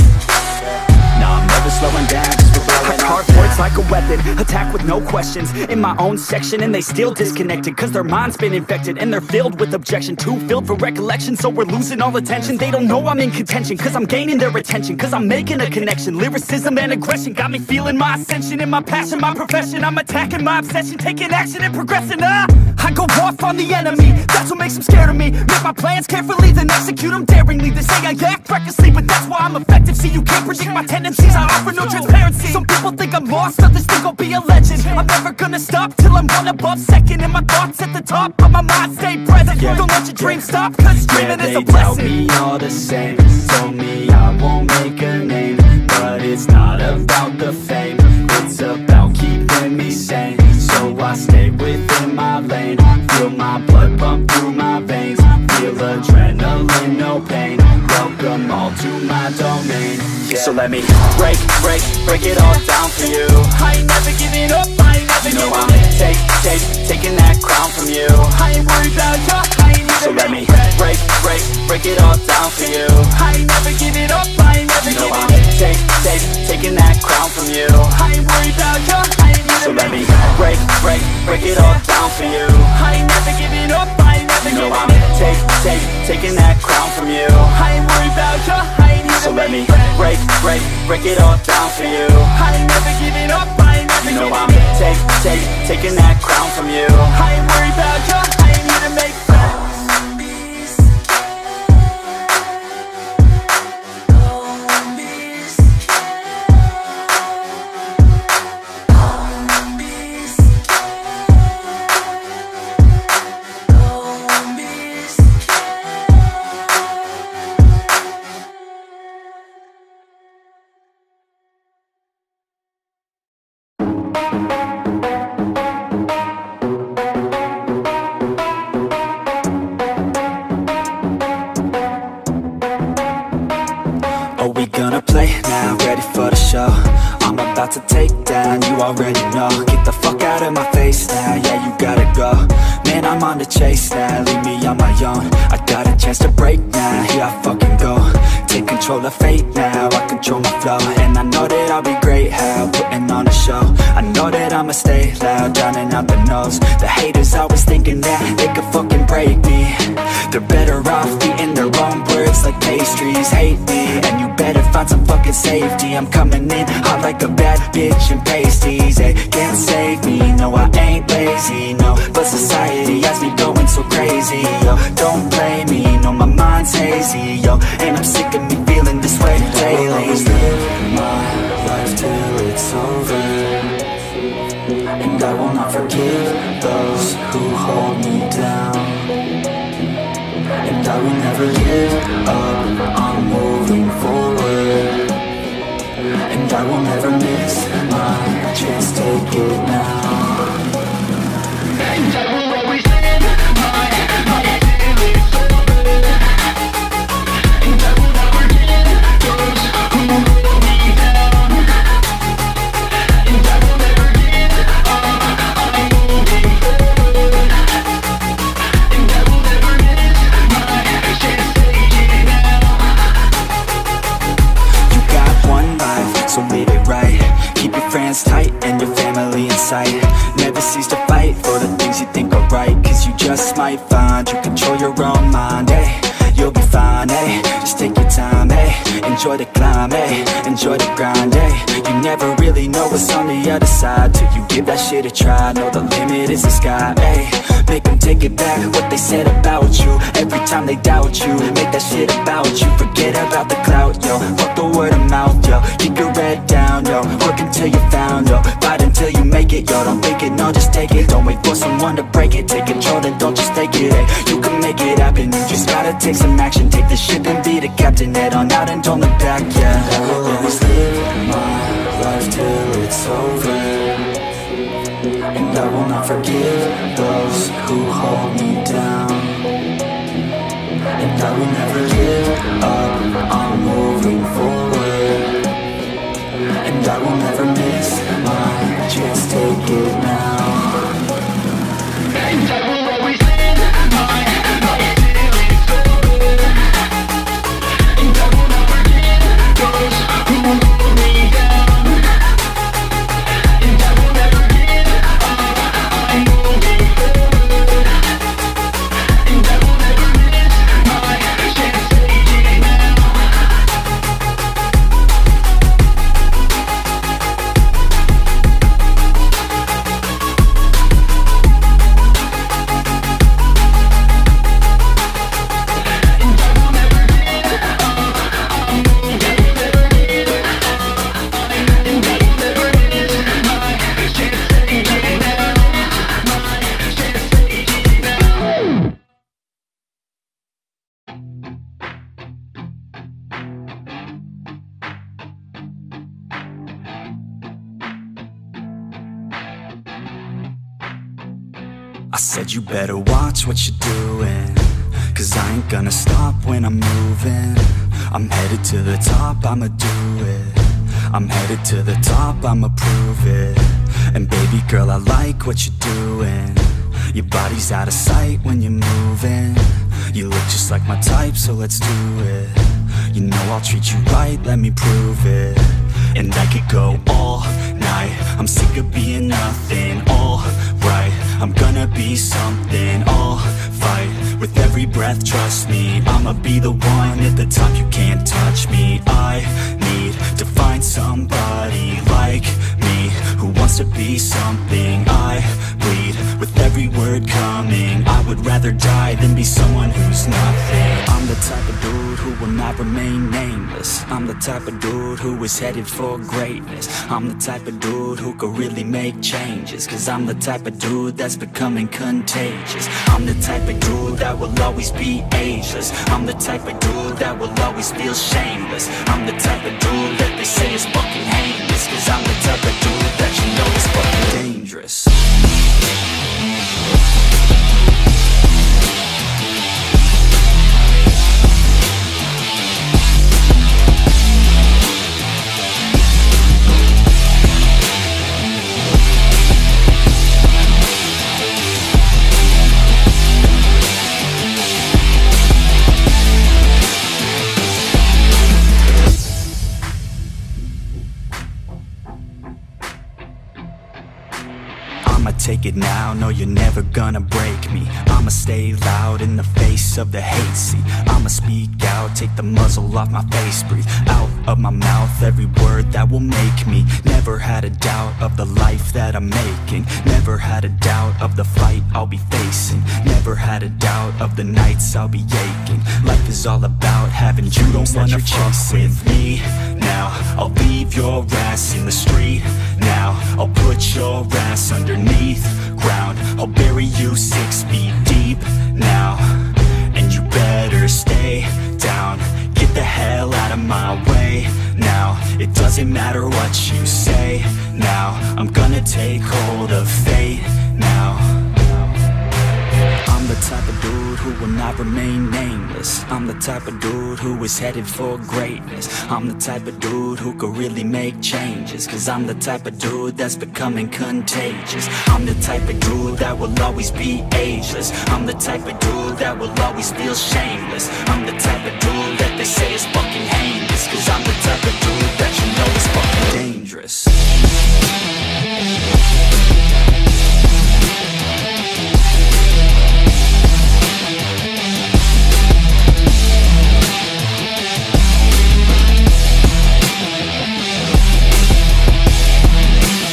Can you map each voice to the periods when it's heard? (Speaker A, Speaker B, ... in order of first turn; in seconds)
Speaker A: 0.9-3.7, 7.0-7.4, 39.5-63.3, 65.2-68.5, 70.0-73.2, 74.8-78.1, 79.6-82.7, 84.4-87.6, 89.2-92.3, 94.0-97.2, 134.4-183.8, 185.0-189.2, 190.6-195.1, 196.3-200.6, 224.9-274.2, 275.3-279.5, 280.9-285.5, 286.6-291.0, 352.1-425.2, 455.0-501.7, 503.1-527.2
Speaker B: 2.8-3.6, 11.1-12.2, 17.2-42.1, 63.6-65.9, 68.5-70.7, 73.2-75.5, 78.1-80.1, 82.7-85.4, 87.6-90.2, 92.4-94.7, 97.2-99.5